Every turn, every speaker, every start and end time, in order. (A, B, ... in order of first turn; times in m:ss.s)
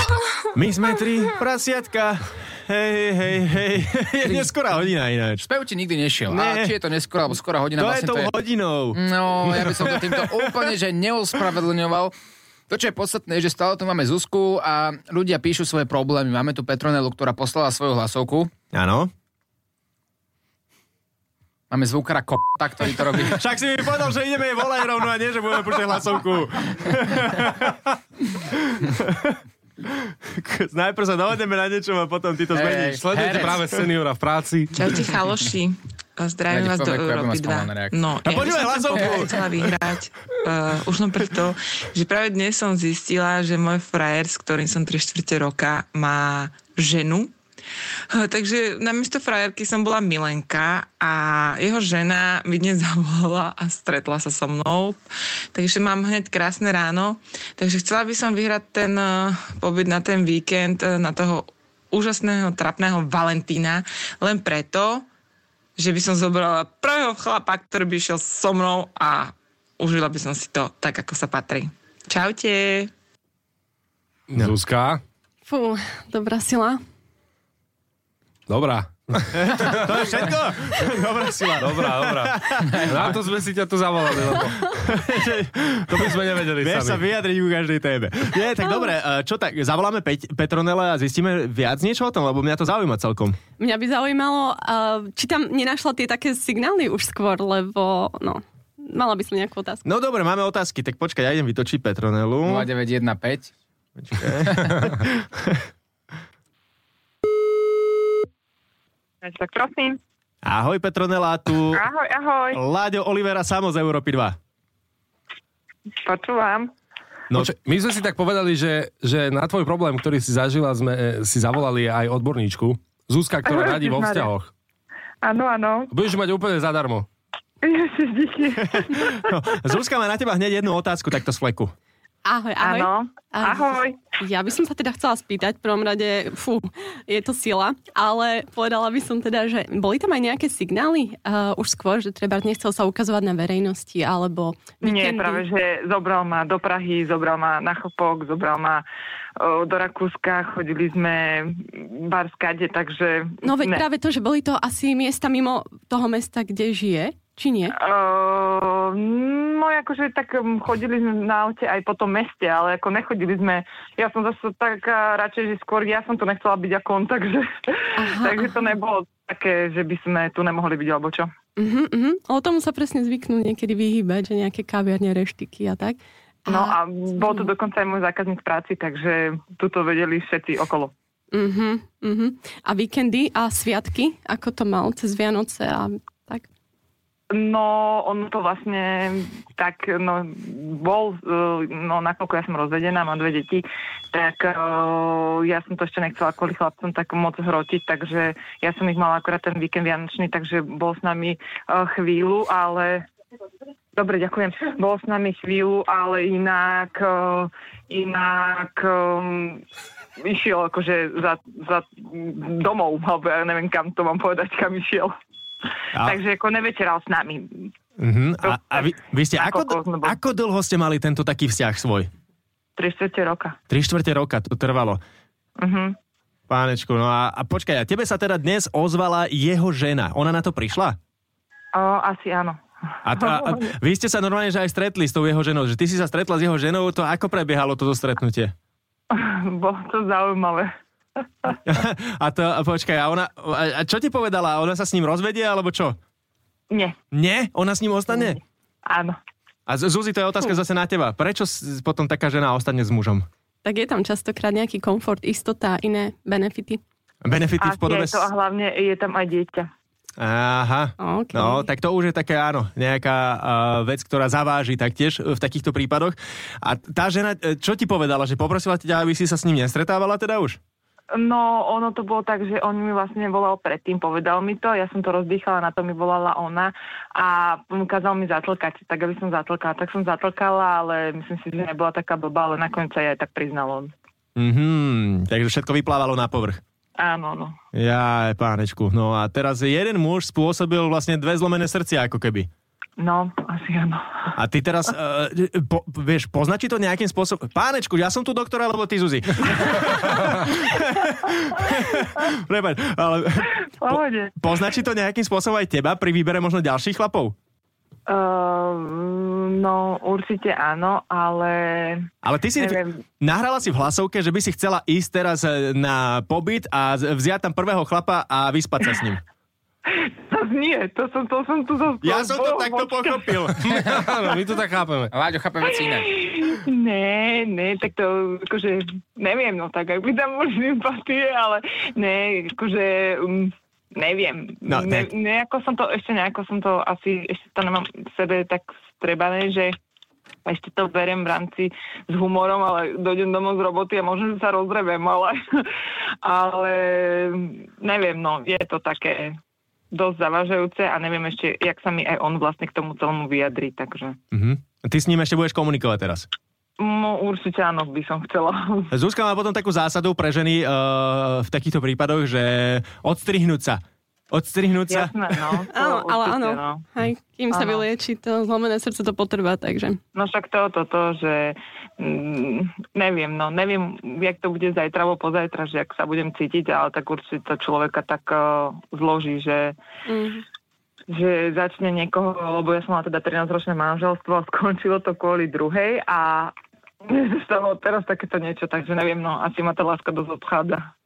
0:00.5-0:05.5 A
0:05.4-0:08.3 B
0:06.3-0:06.7 A
0:07.8-0:10.6 A
0:08.9-0:12.1 B
0:12.7-0:18.5 B
0:18.7-0:19.1 A
0:21.7-0:23.4 B
0:23.2-0:29.4 A
0:29.9-0:33.0 A
0:32.5-0:33.7 B
0:33.0-0:34.7 C
0:34.7-0:47.3 D
0:36.5-0:37.9 B
0:38.2-0:39.7 A
0:48.1-0:55.0 D
0:55.5-1:05.1 D
1:05.8-1:12.9 D
1:14.3-1:15.0 C
1:15.5-1:16.8 E
1:18.5-1:19.9 C
1:19.3-1:23.1 A
1:21.6-1:24.8 C
1:24.8-1:33.4 A
1:25.9-1:27.1 C
1:33.6-1:39.8 E
1:39.8-1:42.7 A
1:42.4-1:43.5 B
1:44.0-1:45.6 A
1:44.5-1:44.7 B
1:49.2-1:50.0 F
1:50.4-1:51.8 A
1:51.7-1:52.6 F
1:52.5-1:54.4 A
1:56.0-1:56.7 F
1:57.3-2:04.5 C
2:03.4-2:04.3 F
2:05.2-2:05.9 F
2:05.9-2:07.1 C
2:07.6-2:09.3 F
2:08.7-2:11.7 A
2:12.2-2:25.4 E
2:12.6-2:14.0 F
2:24.8-2:28.8 F
2:29.4-2:33.8 F
2:33.4-2:37.7 E
2:37.7-2:51.3 F
2:48.0-2:48.6 E
2:51.6-2:57.5 E
2:56.5-3:00.9 F
3:01.3-3:06.4 E
3:07.3-3:23.0 F
3:23.9-3:29.6 F
3:30.2-3:35.1 F
3:36.0-3:37.7 F
3:38.0-3:42.1 A
3:38.4-3:40.2 F
3:42.8-3:43.6 F
3:43.7-3:45.0 A
3:45.6-3:46.0 F
3:46.5-3:51.0 A
3:51.7-3:52.6 F
3:53.0-3:58.5 A
3:53.1-3:53.7 F
3:59.1-4:00.7 F
4:01.6-4:06.0 A
4:06.7-4:07.0 F
4:07.1-4:08.4 A
4:08.1-4:09.2 F
4:09.7-4:13.2 A
4:13.6-4:16.8 E
4:17.2-4:18.3 A
4:17.6-4:19.7 F
4:20.2-4:30.6 A
4:21.0-4:21.7 E
4:31.1-4:43.9 F
4:44.4-4:46.6 A
4:47.0-4:47.6 F
4:47.7-4:52.5 A
4:53.0-4:54.3 F
4:54.4-5:07.3 A
5:03.8-5:04.3 F
5:08.1-5:13.0 F
5:12.2-5:19.2 A
5:19.9-5:23.3 F
5:22.0-5:23.8 A
5:23.6-5:25.1 C
5:25.1-5:26.2 B
5:25.9-5:39.8 F
5:34.6-5:35.1 A
5:40.4-5:45.7 F
5:46.2-5:49.4 F
5:49.9-5:54.2 F
5:54.3-5:56.3 A
5:56.8-5:58.9 F
5:58.9-6:05.6 A
6:04.9-6:06.8 F
6:05.7-6:10.0 E
6:07.5-6:07.8 F
6:10.1-6:19.7 F
6:20.1-6:20.4 E
6:21.1-6:26.5 F
6:27.0-6:30.8 F